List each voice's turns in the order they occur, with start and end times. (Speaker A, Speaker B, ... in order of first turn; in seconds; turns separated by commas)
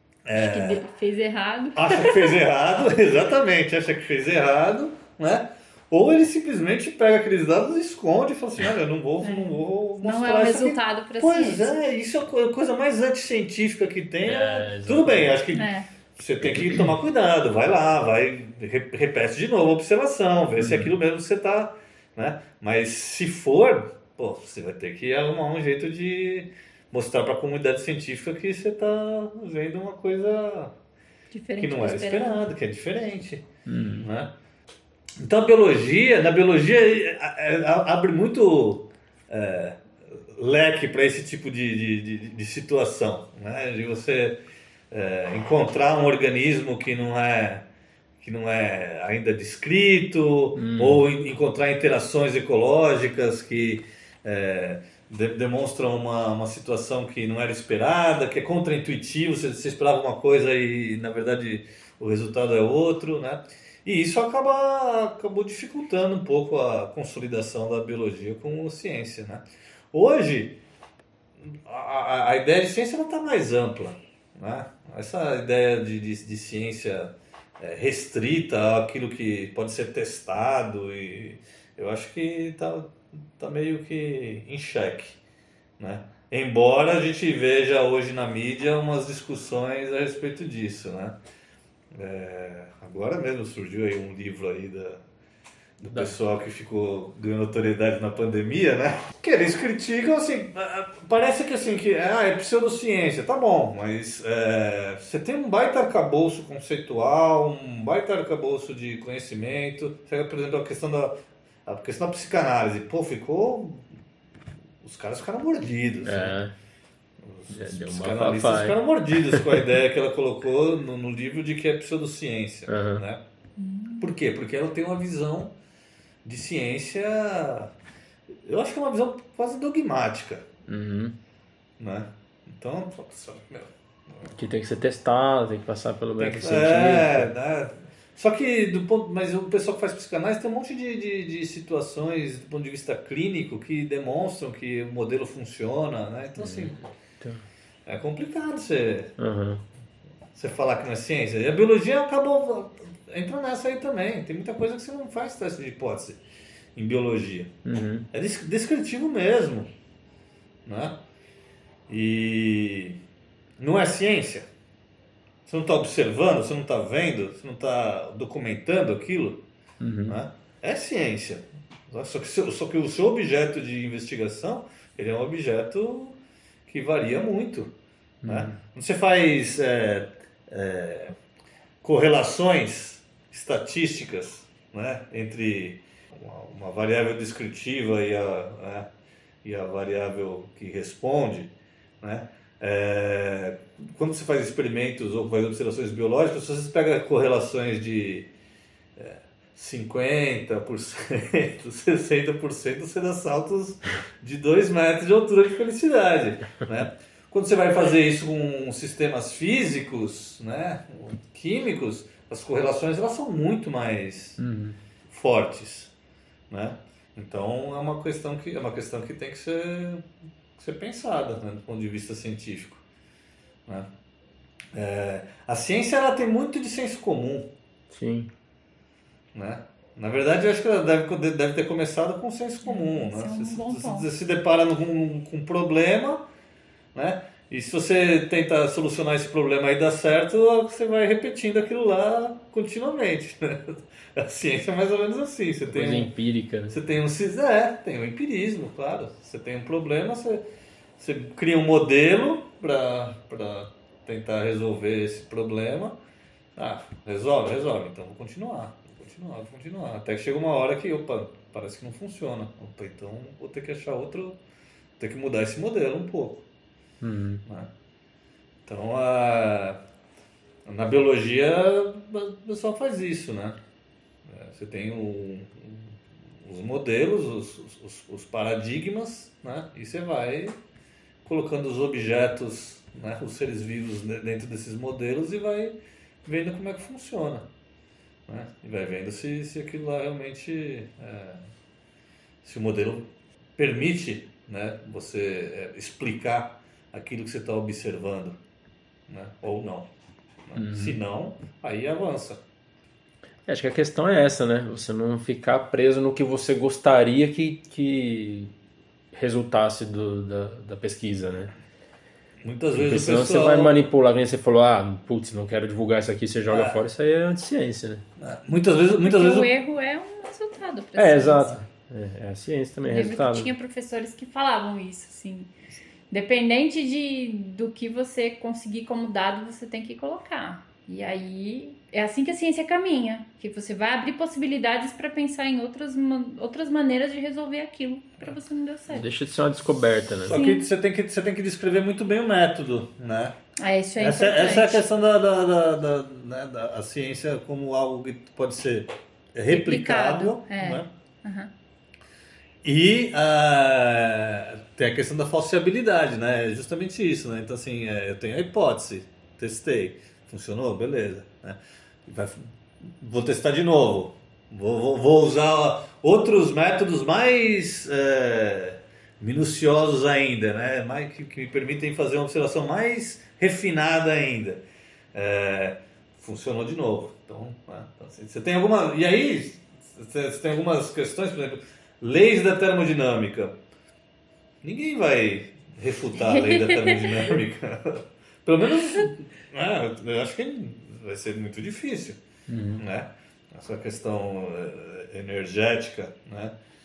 Speaker A: 0.2-0.8, Speaker B: 0.3-2.4, Speaker A: 1.7-30.7, Speaker B: 9.2-11.8, Speaker C: 14.2-15.3, Speaker B: 15.5-15.8, Speaker C: 20.6-20.9, Speaker B: 31.3-32.4, Speaker A: 31.6-33.5, Speaker C: 33.6-34.1, Speaker A: 34.0-34.3, Speaker A: 35.2-44.4, Speaker A: 44.9-47.6, Speaker A: 48.2-70.6, Speaker C: 50.5-51.0, Speaker A: 71.4-85.2, Speaker A: 85.8-91.2, Speaker A: 91.9-95.0, Speaker A: 95.8-111.1, Speaker A: 111.7-113.8, Speaker A: 114.8-116.3, Speaker C: 116.0-116.5, Speaker A: 117.2-123.2, Speaker C: 117.5-119.6, Speaker C: 122.7-123.0, Speaker B: 123.6-124.0, Speaker A: 124.0-125.5, Speaker A: 126.2-127.7, Speaker A: 128.4-130.4, Speaker C: 130.7-131.1, Speaker A: 131.8-134.3, Speaker C: 134.3-137.3, Speaker A: 136.2-146.8, Speaker C: 146.4-147.4, Speaker A: 147.8-149.1, Speaker C: 149.2-149.6, Speaker A: 150.3-156.2, Speaker A: 156.7-157.5, Speaker C: 157.6-158.1, Speaker A: 158.1-159.7, Speaker A: 160.7-161.0, Speaker A: 161.9-163.0, Speaker A: 163.6-164.5, Speaker A: 165.4-169.4, Speaker C: 169.8-170.2, Speaker A: 170.1-177.7, Speaker C: 178.2-178.6, Speaker A: 178.2-181.2, Speaker A: 181.8-188.9, Speaker A: 189.4-198.3, Speaker A: 198.9-214.4, Speaker C: 214.4-214.8, Speaker A: 215.1-215.9, Speaker A: 216.5-220.0, Speaker A: 220.6-222.8, Speaker A: 224.7-227.5, Speaker C: 227.9-228.3, Speaker A: 229.3-236.2, Speaker B: 232.6-234.1, Speaker A: 236.9-246.1, Speaker C: 245.7-246.8, Speaker A: 246.7-250.4, Speaker A: 251.0-256.0, Speaker A: 256.6-264.4, Speaker A: 265.0-266.4, Speaker C: 267.0-267.4, Speaker A: 268.6-269.8, Speaker A: 270.6-273.6, Speaker A: 274.2-280.6, Speaker A: 281.2-287.5, Speaker A: 288.3-291.4, Speaker A: 292.4-298.4, Speaker A: 299.1-299.9, Speaker A: 300.5-302.4, Speaker C: 300.5-301.0, Speaker C: 303.5-308.5, Speaker C: 309.1-311.5, Speaker A: 312.4-313.8, Speaker C: 312.7-318.0, Speaker A: 316.5-316.8, Speaker A: 318.2-319.5, Speaker B: 318.9-321.6, Speaker C: 321.0-323.5, Speaker B: 322.9-325.5, Speaker B: 326.1-339.1, Speaker C: 338.9-340.3, Speaker A: 340.2-343.4, Speaker B: 340.3-340.7, Speaker B: 343.6-344.8, Speaker A: 344.0-350.9, Speaker B: 349.5-351.5, Speaker A: 352.6-374.6, Speaker A: 375.1-383.6, Speaker A: 384.6-392.2, Speaker B: 386.2-387.2, Speaker C: 392.5-392.8, Speaker A: 392.8-396.5